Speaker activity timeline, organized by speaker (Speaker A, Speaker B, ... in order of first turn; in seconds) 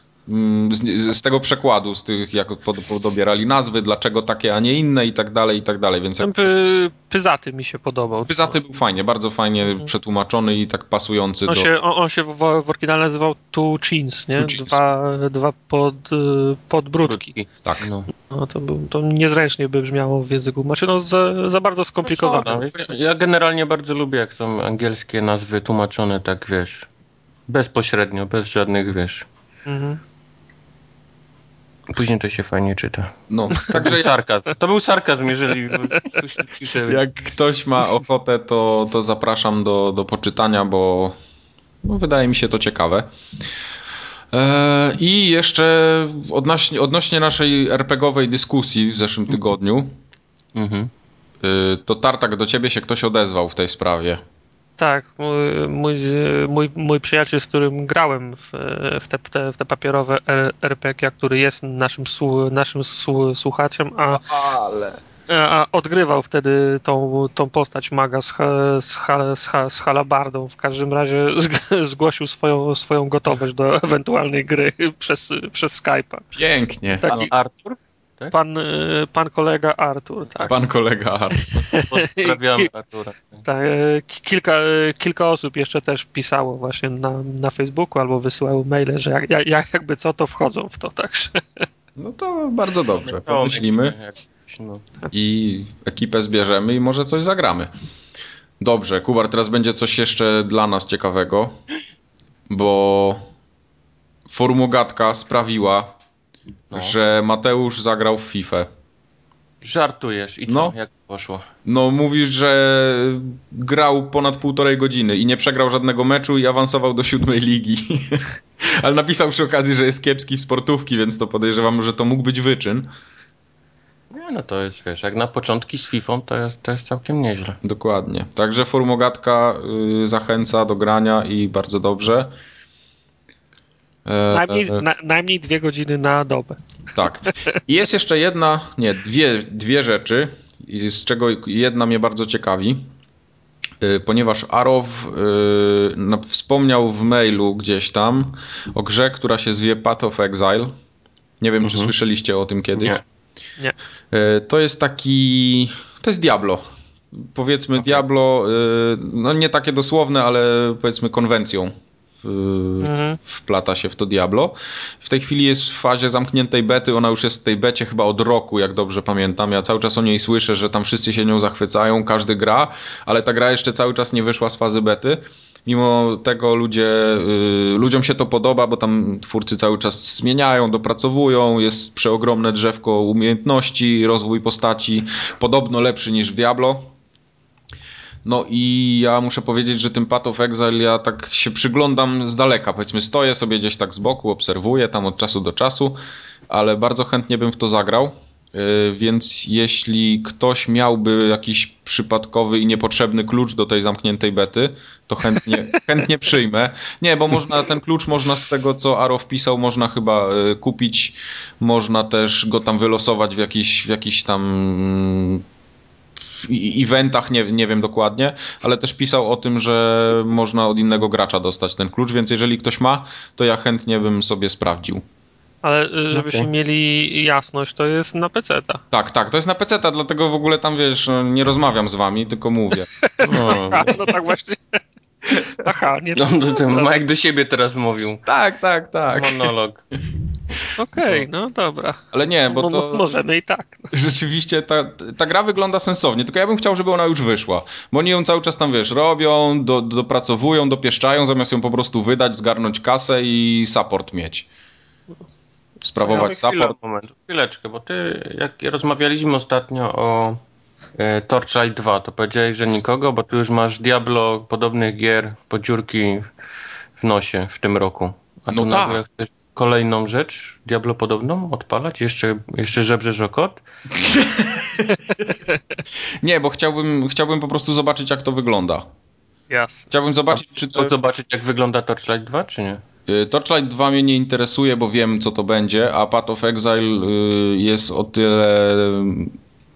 Speaker A: 0.3-6.5, 8.3-11.7, 14.4-14.8, 33.3-34.2, 36.9-41.1, 41.8-43.1, 44.3-49.9, 51.4-54.2, 64.1-65.0, 76.3-77.3, 80.4-81.7, 92.0-94.0, 95.1-97.7, 98.6-101.6, 102.5-103.2, 104.3-105.9, 106.7-108.7, 110.5-110.7, 111.6-122.9, 127.6-132.3, 134.1-134.8, 136.9-142.9, 143.8-150.8, 151.4-153.0, 154.1-156.6, 157.1-186.9, 188.2-196.0, 196.5-215.4, 216.4-225.0, 228.9-233.6, 238.2-239.5, 242.1-243.0, 243.9-254.4, 255.8-256.8, 268.5-269.0, 273.9-275.2, 276.2-278.8, 279.9-280.9, 283.1-289.4
Speaker B: 6.2-8.5, 11.5-17.3, 18.3-22.7, 29.6-30.0, 54.8-64.3, 65.3-76.3, 77.0-77.3, 78.3-80.5, 81.7-82.7, 83.4-91.6, 134.3-136.6, 162.8-163.2, 225.6-228.8, 233.0-234.8, 235.3-237.0, 240.8-243.9, 279.5-279.9
Speaker C: 17.0-18.1, 22.0-26.9, 27.5-29.2, 31.9-37.0, 50.5-50.9, 77.0-78.3, 81.8-83.4, 93.0-94.8, 109.6-111.4, 124.1-127.6, 151.6-151.9, 152.8-153.0, 226.1-226.5, 233.2-234.0, 236.1-238.2, 239.1-239.8, 256.0-260.4, 261.0-266.3, 267.0-273.6, 280.3-282.8